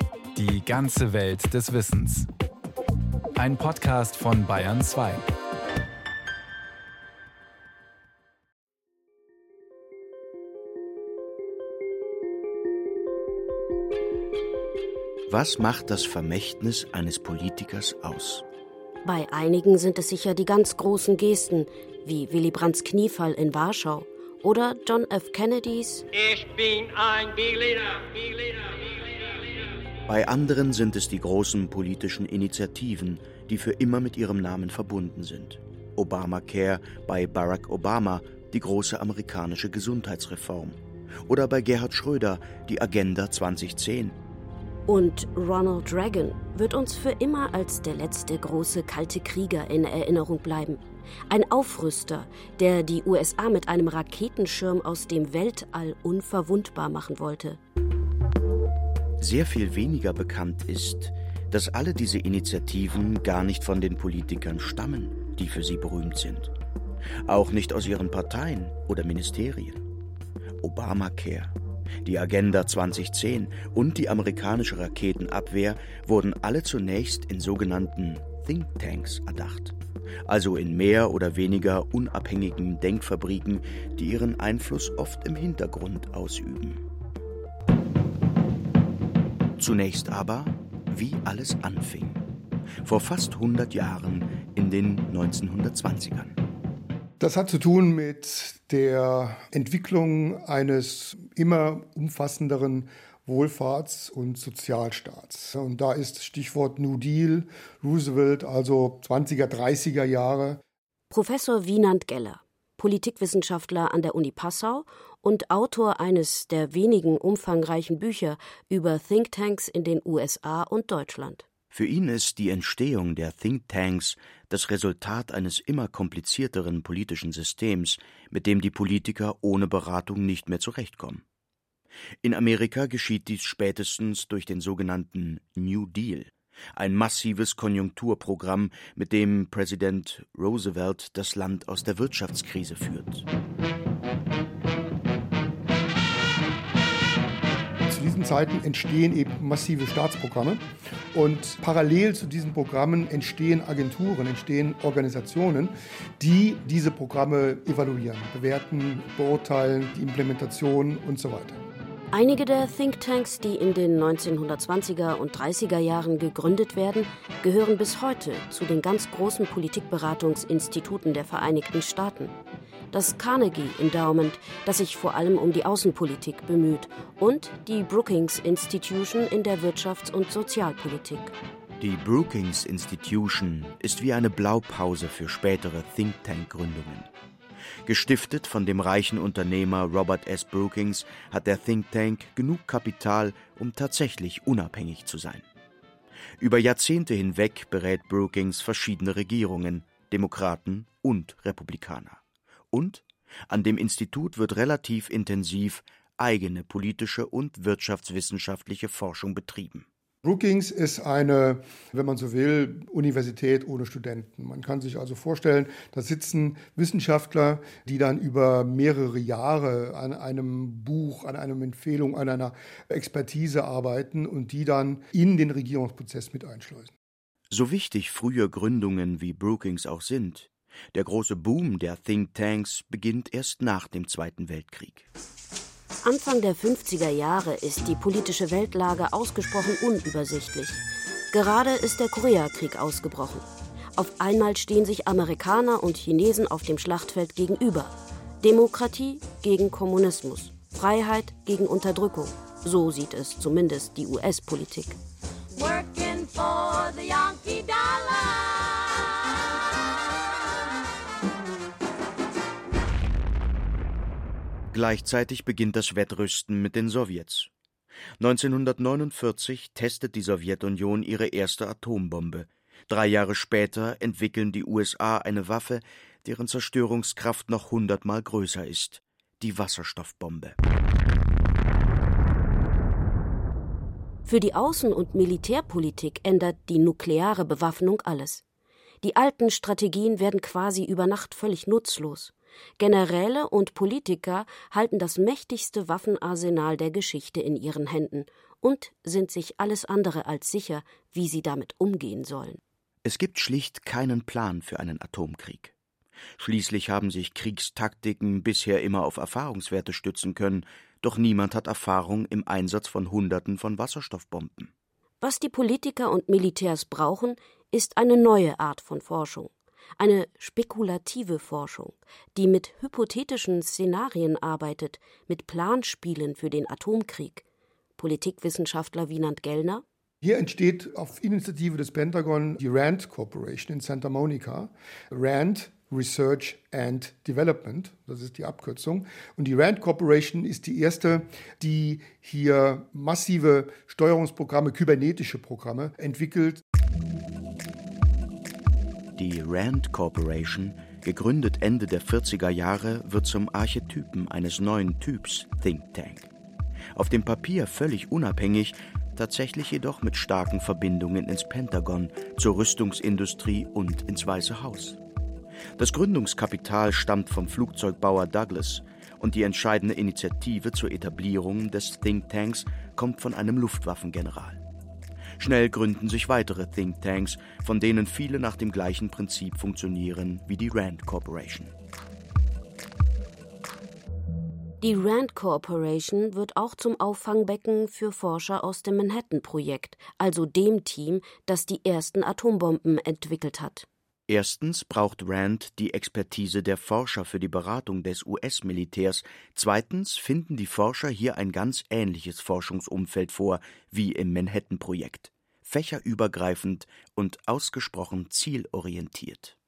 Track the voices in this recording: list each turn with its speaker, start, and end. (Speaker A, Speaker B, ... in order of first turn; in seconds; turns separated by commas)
Speaker A: 0.3-2.3, Speaker A: 3.4-5.3, Speaker B: 15.3-18.4, Speaker C: 19.0-26.1, Speaker D: 26.1-29.5, Speaker B: 30.1-44.2, Speaker C: 44.9-57.6, Speaker B: 59.2-66.5, Speaker B: 67.2-69.8, Speaker B: 70.6-86.8, Speaker B: 89.6-92.2, Speaker B: 92.8-96.3, Speaker E: 97.2-110.6, Speaker C: 111.1-121.4, Speaker B: 121.7-131.2, Speaker B: 132.2-143.2, Speaker E: 147.9-161.6, Speaker C: 162.1-172.3, Speaker C: 172.9-181.3, Speaker B: 181.8-187.1, Speaker B: 187.8-195.4, Speaker B: 196.4-202.2, Speaker B: 202.7-209.8, Speaker E: 210.2-226.9, Speaker B: 227.5-235.1, Speaker C: 236.0-255.0, Speaker F: 255.5-259.4, Speaker B: 264.7-267.5, Speaker B: 268.2-280.6, Speaker C: 284.2-288.4, Speaker C: 289.0-302.6, Speaker B: 303.0-305.7, Speaker B: 306.4-314.7, Speaker C: 315.2-327.4, Speaker C: 328.0-329.8, Speaker E: 330.2-346.6, Speaker B: 349.1-356.3, Speaker B: 356.9-365.0, Speaker B: 365.8-374.6, Speaker B: 375.4-381.7, Speaker C: 384.8-393.9, Speaker B: 394.3-409.5